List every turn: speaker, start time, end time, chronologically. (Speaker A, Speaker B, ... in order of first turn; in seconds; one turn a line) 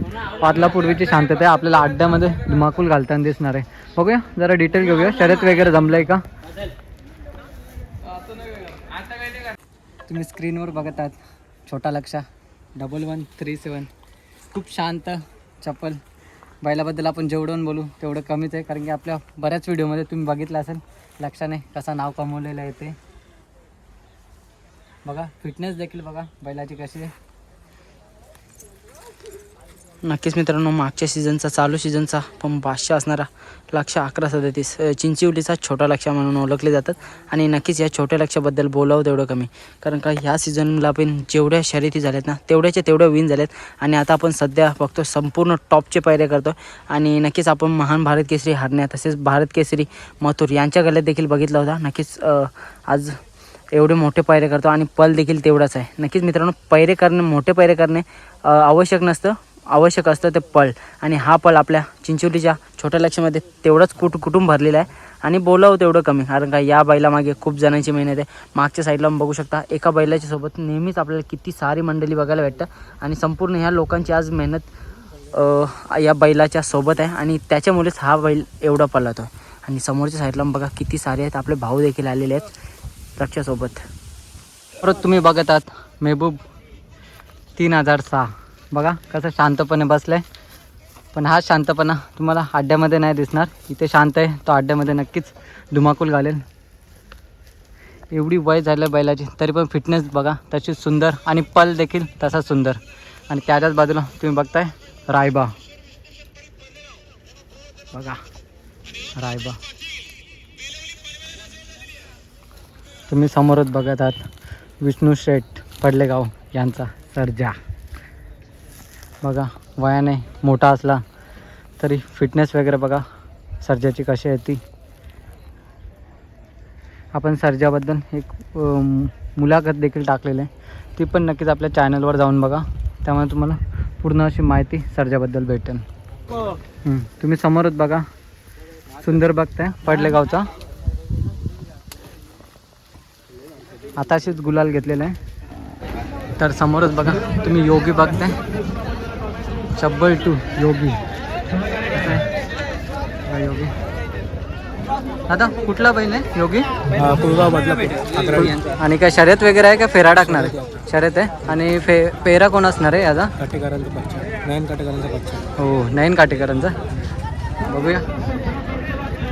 Speaker A: 0.4-6.2
Speaker A: 10.1-13.9
Speaker A: 14.5-16.0
Speaker A: 16.6-22.9
Speaker A: 25.0-27.1
Speaker B: 30.0-53.2
Speaker B: 53.7-74.7
Speaker B: 75.3-82.5
Speaker B: 83.2-83.8
Speaker A: 84.8-86.4
Speaker A: 87.5-90.2
Speaker A: 91.1-96.4
Speaker A: 98.1-102.8
Speaker A: 103.3-105.5
Speaker A: 107.9-108.2
Speaker A: 109.2-109.6
Speaker A: 113.1-114.2
Speaker A: 114.8-117.6
Speaker A: 119.2-121.0
Speaker A: 121.8-123.0
Speaker A: 123.6-124.6
Speaker A: 127.1-135.8
Speaker A: 136.8-138.1
Speaker A: 139.0-140.5
Speaker A: 144.0-145.2
Speaker A: 146.4-148.4
Speaker A: 149.8-151.0
Speaker A: 151.9-152.2
Speaker A: 153.2-153.7
Speaker A: 155.3-156.7
Speaker C: 156.9-158.7
Speaker A: 158.3-163.3
Speaker C: 163.4-165.5
Speaker A: 165.6-166.8
Speaker A: 167.6-168.0